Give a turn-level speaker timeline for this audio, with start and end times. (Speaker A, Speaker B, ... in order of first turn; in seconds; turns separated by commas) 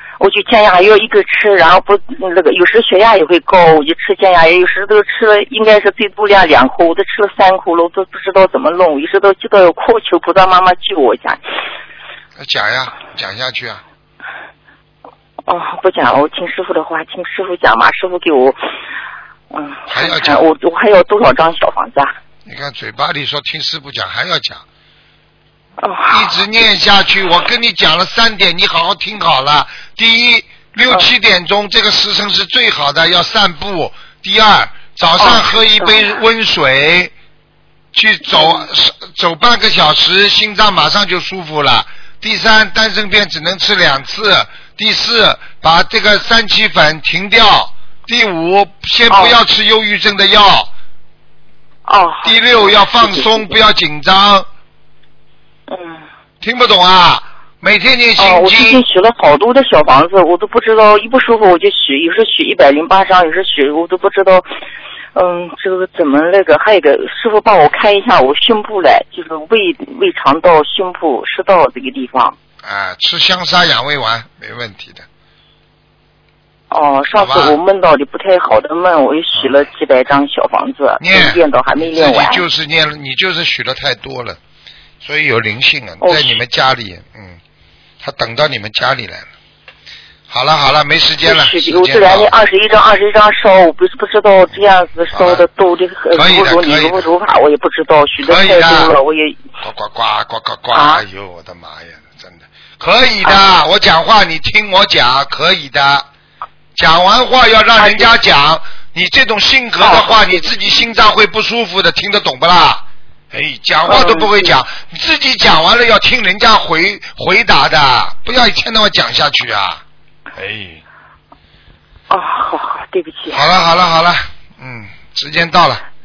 Speaker A: 0.2-11.4, Speaker B: 12.4-13.8, Speaker A: 15.4-18.6, Speaker A: 19.5-22.1, Speaker B: 19.9-20.4, Speaker B: 22.4-24.6, Speaker A: 25.8-26.4, Speaker B: 26.1-37.1, Speaker A: 35.2-36.2, Speaker B: 37.9-50.7, Speaker A: 38.3-38.7, Speaker A: 49.1-49.4, Speaker A: 51.9-53.6, Speaker B: 52.2-54.5, Speaker A: 55.7-56.1, Speaker B: 56.4-58.8, Speaker A: 58.2-64.5, Speaker A: 65.1-72.4, Speaker B: 72.6-75.1, Speaker A: 76.7-82.4, Speaker B: 77.1-77.6, Speaker B: 79.3-79.6, Speaker B: 81.0-84.4, Speaker B: 85.0-87.4, Speaker A: 86.0-86.4, Speaker B: 88.0-89.3, Speaker B: 90.3-92.3, Speaker A: 91.2-99.4, Speaker B: 95.1-95.5, Speaker B: 96.1-97.1, Speaker B: 98.2-98.9, Speaker B: 99.6-106.1, Speaker A: 100.7-101.0, Speaker B: 106.7-119.8, Speaker A: 107.8-108.1, Speaker A: 109.8-110.5, Speaker A: 113.8-114.5, Speaker B: 120.3-120.8, Speaker A: 122.1-123.5, Speaker B: 123.3-125.8